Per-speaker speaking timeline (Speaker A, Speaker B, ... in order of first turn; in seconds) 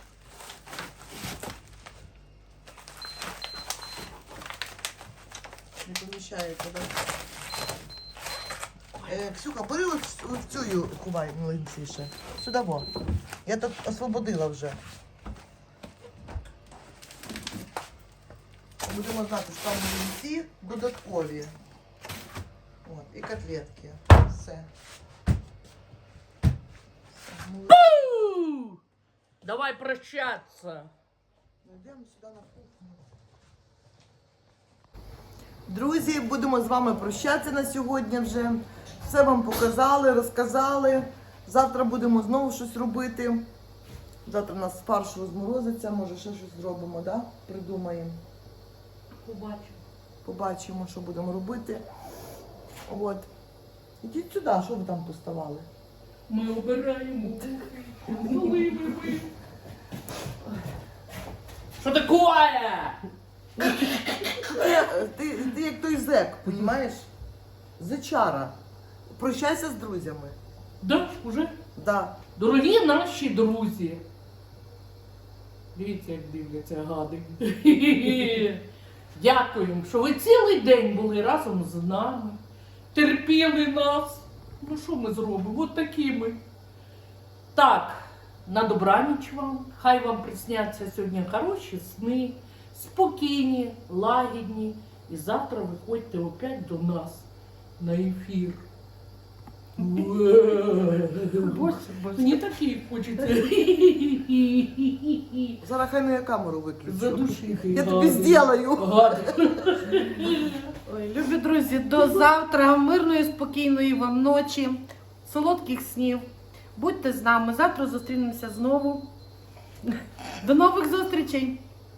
Speaker A: 5.8-7.0, 9.0-12.9, 13.4-14.8, 18.8-21.5, 22.8-24.7, 27.1-27.8, 31.6-33.0, 35.7-43.5, 44.2-48.2, 50.2-51.8, 52.9-53.3, 54.0-55.7, 64.5-67.1, 67.8-68.5, 69.1-70.4, 71.8-72.2, 105.6-109.6
Speaker B: 27.7-28.8, 29.4-30.9, 49.2-49.8, 56.3-59.3, 61.8-63.0, 63.6-64.5, 70.8-71.5, 72.3-74.0, 75.7-82.4, 82.9-86.4, 87.5-97.3, 97.8-98.6, 99.8-105.6, 106.8-110.7
Speaker C: 101.3-102.4, 110.8-119.1, 119.9-121.6